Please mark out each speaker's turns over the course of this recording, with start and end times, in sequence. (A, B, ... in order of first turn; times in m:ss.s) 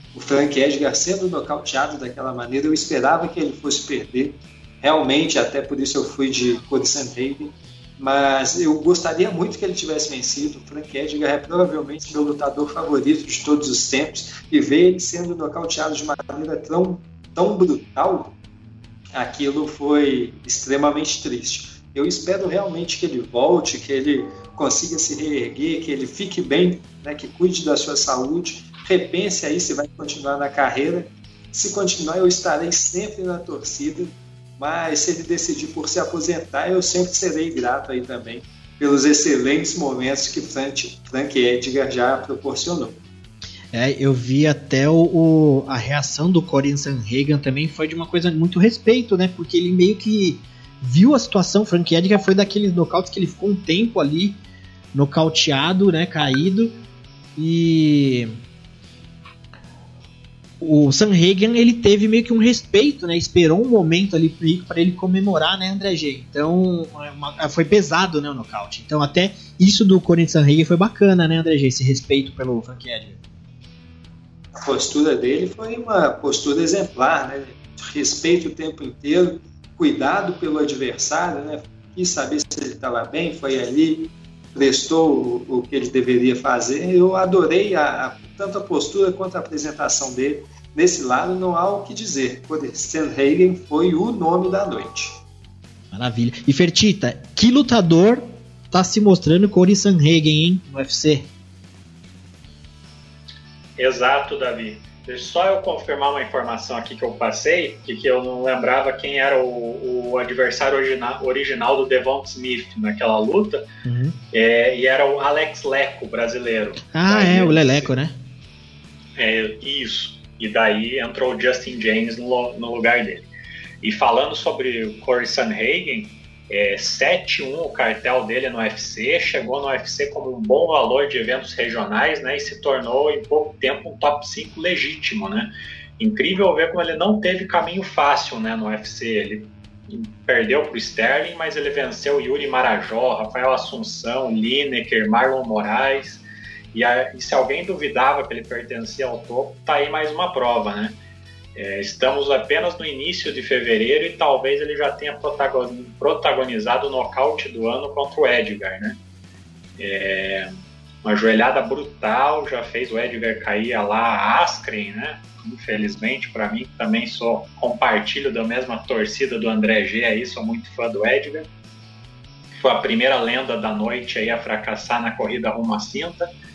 0:00.1-0:18.4 A
0:19.1-0:43.0 A
0:43.7-0:54.4 B
0:54.9-0:56.8 B
0:57.4-0:58.3 B
1:00.6-1:13.2 B
1:14.6-1:35.2 A
1:35.9-1:41.3 B
1:43.8-1:53.6 C
1:53.8-1:54.2 B
1:54.3-1:57.9 C
1:56.9-1:58.2 B
1:59.2-2:03.3 C
2:03.8-2:31.0 C
2:31.6-2:39.0 C
2:39.8-2:40.5 C
2:41.0-2:51.5 C
2:52.6-2:56.3 C